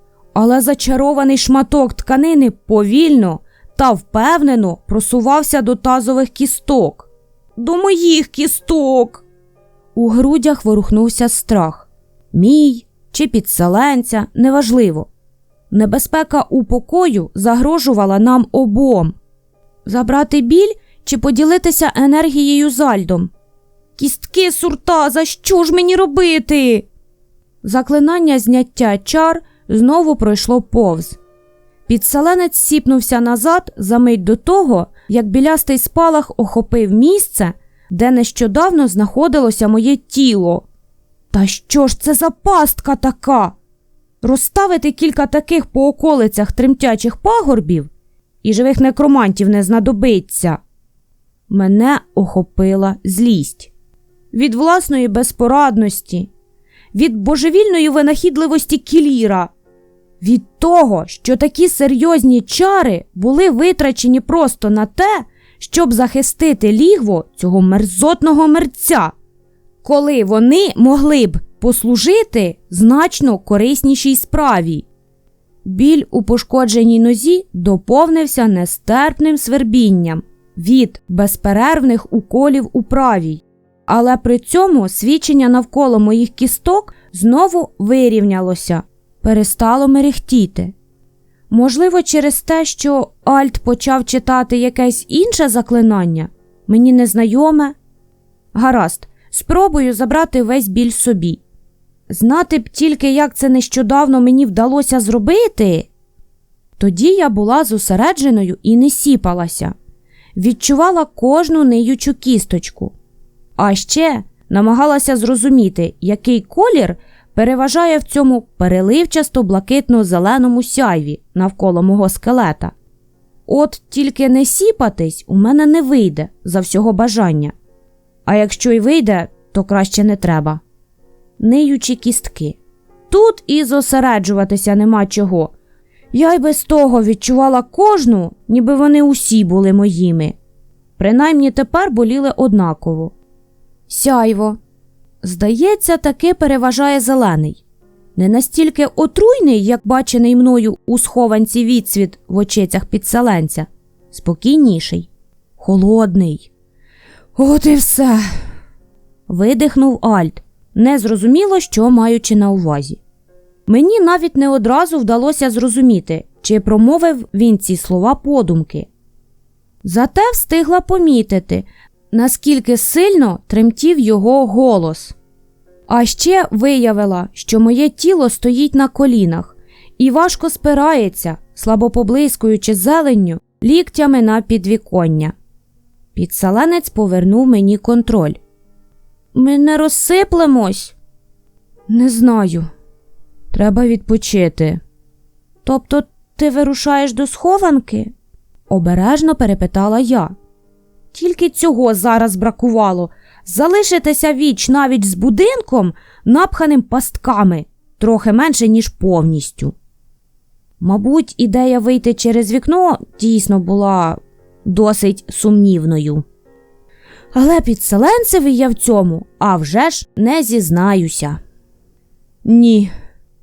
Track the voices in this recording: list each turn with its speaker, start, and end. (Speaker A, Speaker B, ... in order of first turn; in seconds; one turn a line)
Speaker A: 0.3-9.2
Speaker A: 9.9-15.1
Speaker A: 15.7-19.2
Speaker A: 19.9-23.3
Speaker A: 24.0-26.9
Speaker A: 27.6-31.2
Speaker A: 31.9-40.7
Speaker A: 41.3-43.6
Speaker A: 44.2-47.9
Speaker A: 48.4-50.6
Speaker A: 51.5-53.7
Speaker A: 54.3-56.3
Speaker A: 56.9-59.5
Speaker A: 60.2-69.1
Speaker A: 69.8-74.9
Speaker A: 75.7-90.7
Speaker A: 91.5-97.8
Speaker A: 98.5-101.4
Speaker A: 102.1-105.9
Speaker A: 106.8-109.7
Speaker A: 110.3-112.9
Speaker A: 113.6-122.7
Speaker A: 123.5-127.5
Speaker A: 128.3-130.6
Speaker A: 131.4-132.6
Speaker A: 133.1-135.5
Speaker A: 136.1-140.4
Speaker A: 141.0-143.1
Speaker A: 143.9-144.6
Speaker A: 145.2-147.6
Speaker A: 148.2-156.5
Speaker A: 157.3-158.3
Speaker A: 159.3-163.0
Speaker A: 163.7-168.9
Speaker A: 169.8-175.2
Speaker A: 175.9-185.3
Speaker A: 186.2-188.4
Speaker A: 189.3-191.0
Speaker A: 191.9-192.7
Speaker A: 193.5-194.8
Speaker A: 195.6-198.1
Speaker A: 198.7-200.3
Speaker A: 201.1-209.8
Speaker A: 210.8-216.2
Speaker A: 217.3-221.4
Speaker A: 222.4-222.9